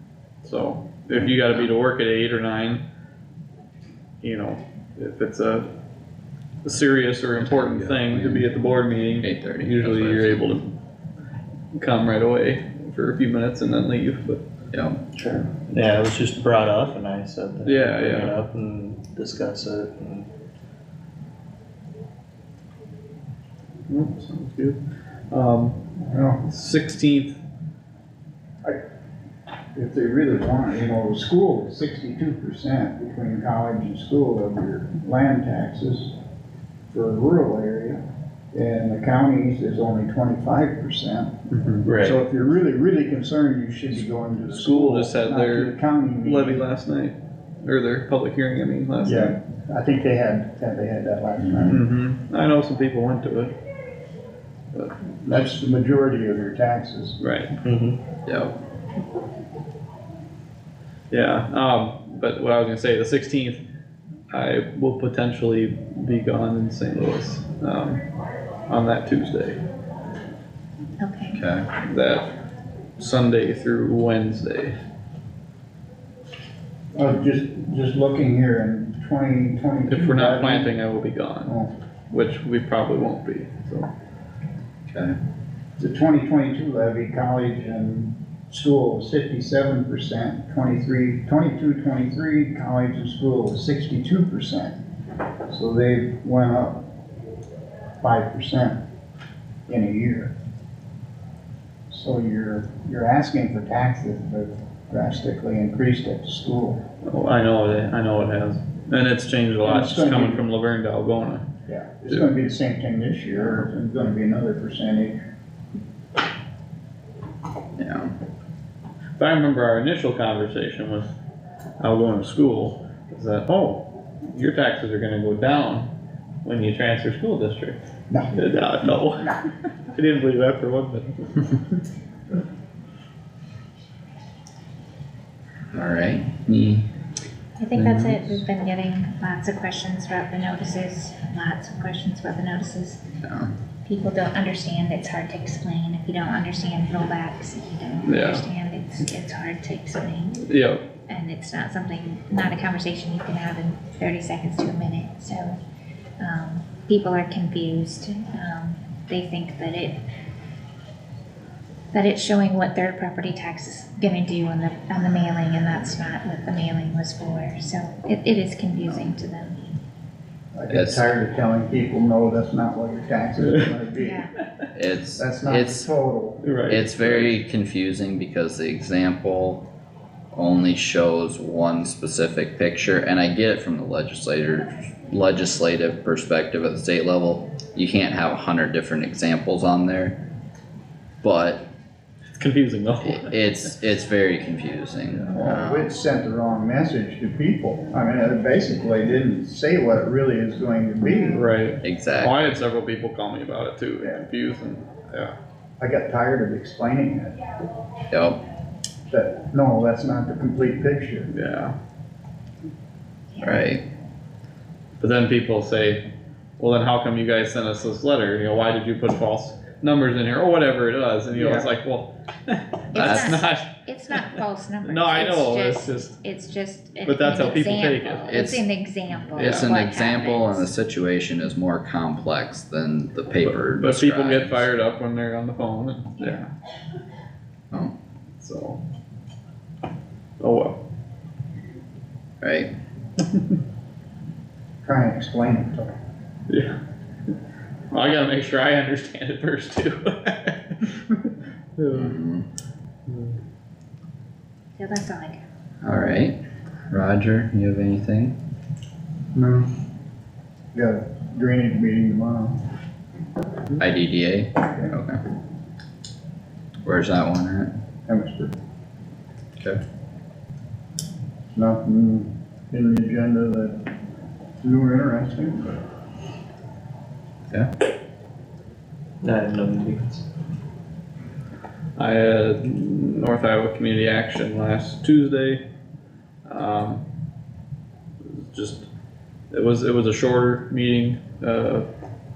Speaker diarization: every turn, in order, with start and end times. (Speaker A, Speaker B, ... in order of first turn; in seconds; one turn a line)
Speaker A: 0.4-2.8
Speaker B: 1.1-1.7
Speaker A: 4.2-5.7
Speaker A: 6.6-10.8
Speaker B: 7.4-8.5
Speaker B: 9.2-10.5
Speaker A: 11.7-14.4
Speaker B: 14.7-15.0
Speaker C: 15.1-20.2
Speaker A: 17.6-18.3
Speaker A: 23.9-24.8
Speaker A: 25.3-25.8
Speaker D: 26.0-26.4
Speaker A: 26.4-27.4
Speaker D: 29.7-36.1
Speaker D: 36.9-41.3
Speaker A: 41.8-42.2
Speaker D: 41.9-46.7
Speaker A: 44.4-49.4
Speaker D: 49.0-51.8
Speaker A: 51.6-53.5
Speaker D: 55.2-57.2
Speaker A: 57.2-57.5
Speaker C: 57.6-58.0
Speaker B: 58.2-58.5
Speaker A: 61.1-63.6
Speaker A: 64.3-68.0
Speaker A: 68.7-69.6
Speaker E: 71.0-71.4
Speaker B: 71.3-71.7
Speaker A: 71.8-72.3
Speaker A: 73.0-74.8
Speaker D: 76.9-80.8
Speaker A: 79.9-81.6
Speaker D: 81.5-81.7
Speaker A: 82.1-83.9
Speaker B: 84.9-85.2
Speaker D: 85.8-94.8
Speaker D: 95.5-96.8
Speaker D: 98.0-98.8
Speaker D: 99.7-100.3
Speaker D: 101.9-106.8
Speaker A: 107.0-111.5
Speaker D: 109.6-110.5
Speaker D: 111.7-115.2
Speaker B: 117.8-118.1
Speaker A: 119.2-121.1
Speaker A: 121.8-125.9
Speaker A: 126.4-127.8
Speaker A: 128.3-129.4
Speaker A: 129.9-131.5
Speaker B: 135.7-136.9
Speaker E: 137.6-143.0
Speaker B: 137.7-138.4
Speaker B: 143.2-143.5
Speaker E: 143.8-150.5
Speaker A: 148.0-148.4
Speaker A: 150.4-150.8
Speaker E: 151.1-155.6
Speaker E: 156.2-160.0
Speaker E: 161.9-169.6
Speaker D: 170.5-174.2
Speaker B: 170.7-171.1
Speaker E: 174.0-174.3
Speaker B: 174.7-175.8
Speaker D: 175.2-176.5
Speaker A: 176.4-177.3
Speaker B: 176.7-179.7
Speaker B: 180.3-190.2
Speaker B: 191.2-191.6
Speaker A: 192.3-193.4
Speaker B: 193.0-195.9
Speaker A: 195.1-195.6
Speaker D: 195.3-201.4
Speaker A: 201.3-205.3
Speaker B: 201.8-202.5
Speaker D: 205.8-207.4
Speaker B: 208.1-208.4
Speaker D: 209.1-211.3
Speaker A: 211.3-211.7
Speaker E: 213.3-213.7
Speaker B: 213.4-213.8
Speaker A: 215.0-216.0
Speaker A: 216.6-223.7
Speaker D: 221.4-221.6
Speaker E: 222.9-230.7
Speaker B: 222.9-223.4
Speaker A: 224.8-226.2
Speaker A: 227.0-228.4
Speaker B: 228.3-228.6
Speaker B: 229.3-234.7
Speaker A: 229.3-229.7
Speaker A: 233.4-236.5
Speaker E: 236.2-236.4
Speaker A: 238.4-238.8
Speaker A: 240.4-240.8
Speaker B: 242.4-242.7
Speaker D: 244.8-245.9
Speaker A: 246.5-246.8
Speaker A: 247.9-251.0
Speaker A: 251.8-252.1
Speaker B: 251.9-252.5
Speaker A: 253.1-253.3
Speaker E: 254.8-255.4
Speaker B: 255.8-256.4
Speaker B: 256.9-258.3
Speaker D: 259.3-259.7
Speaker D: 260.7-262.6
Speaker B: 263.8-265.2
Speaker D: 264.7-264.9
Speaker B: 266.8-267.7
Speaker D: 268.1-268.5
Speaker D: 271.5-273.9
Speaker D: 274.6-275.8
Speaker C: 279.2-280.2
Speaker A: 281.9-285.6
Speaker A: 286.4-287.0
Speaker A: 288.2-288.9
Speaker A: 289.5-291.9